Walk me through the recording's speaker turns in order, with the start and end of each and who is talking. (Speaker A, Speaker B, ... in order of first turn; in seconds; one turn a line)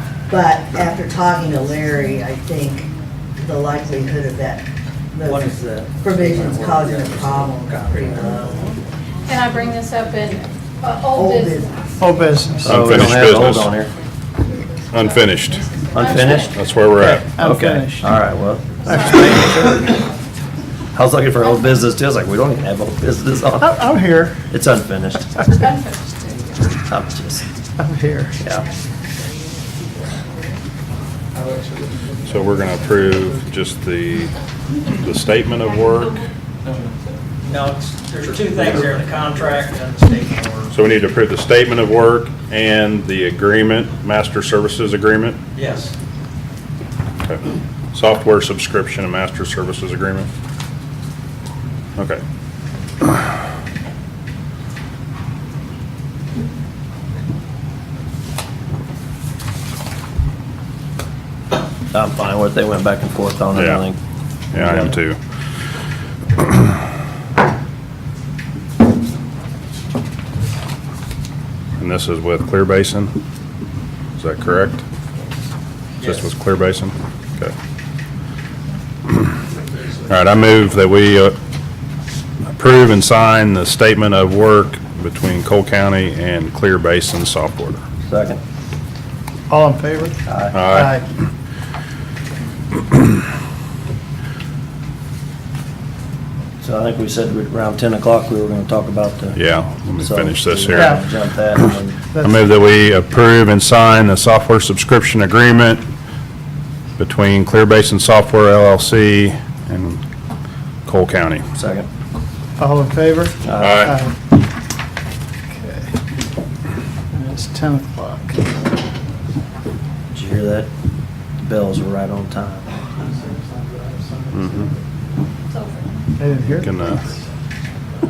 Speaker A: 0.3-8.8
Speaker B: 5.3-8.4
Speaker C: 9.3-11.7
Speaker A: 11.1-11.7
Speaker D: 12.0-12.8
Speaker E: 12.7-13.7
Speaker B: 12.7-13.9
Speaker E: 14.9-15.7
Speaker B: 15.9-16.6
Speaker C: 15.9-16.6
Speaker E: 16.5-17.2
Speaker D: 17.0-18.3
Speaker B: 17.3-20.1
Speaker C: 18.7-19.8
Speaker B: 20.9-23.8
Speaker D: 23.6-24.4
Speaker B: 24.4-25.3
Speaker C: 25.4-26.8
Speaker B: 26.8-27.4
Speaker D: 27.8-28.4
Speaker B: 28.4-28.7
Speaker E: 32.3-34.3
Speaker E: 34.9-36.1
Speaker C: 35.6-36.3
Speaker F: 37.5-37.8
Speaker B: 37.5-40.2
Speaker F: 38.4-40.7
Speaker E: 40.7-45.4
Speaker B: 45.6-45.9
Speaker E: 47.9-50.3
Speaker E: 52.0-52.2
Speaker B: 61.9-64.0
Speaker E: 63.5-63.9
Speaker E: 64.5-65.2
Speaker B: 64.5-64.9
Speaker E: 71.8-73.1
Speaker E: 74.2-74.8
Speaker E: 76.0-77.5
Speaker E: 80.1-81.4
Speaker E: 82.6-87.8
Speaker B: 88.1-88.4
Speaker D: 89.5-91.0
Speaker B: 90.3-90.7
Speaker E: 90.5-91.0
Speaker B: 96.6-99.4
Speaker E: 99.3-101.0
Speaker B: 100.0-102.0
Speaker D: 100.7-101.0
Speaker D: 102.1-102.4
Speaker E: 102.2-105.8
Speaker E: 107.0-110.0
Speaker E: 110.9-111.4
Speaker B: 111.6-111.9
Speaker D: 112.6-114.1
Speaker B: 113.5-113.8
Speaker E: 113.6-114.0
Speaker D: 115.5-115.9
Speaker D: 117.1-118.4
Speaker B: 120.1-120.7
Speaker B: 121.4-122.7
Speaker E: 124.3-124.7
Speaker C: 125.5-126.0
Speaker D: 126.2-126.8
Speaker E: 126.6-127.0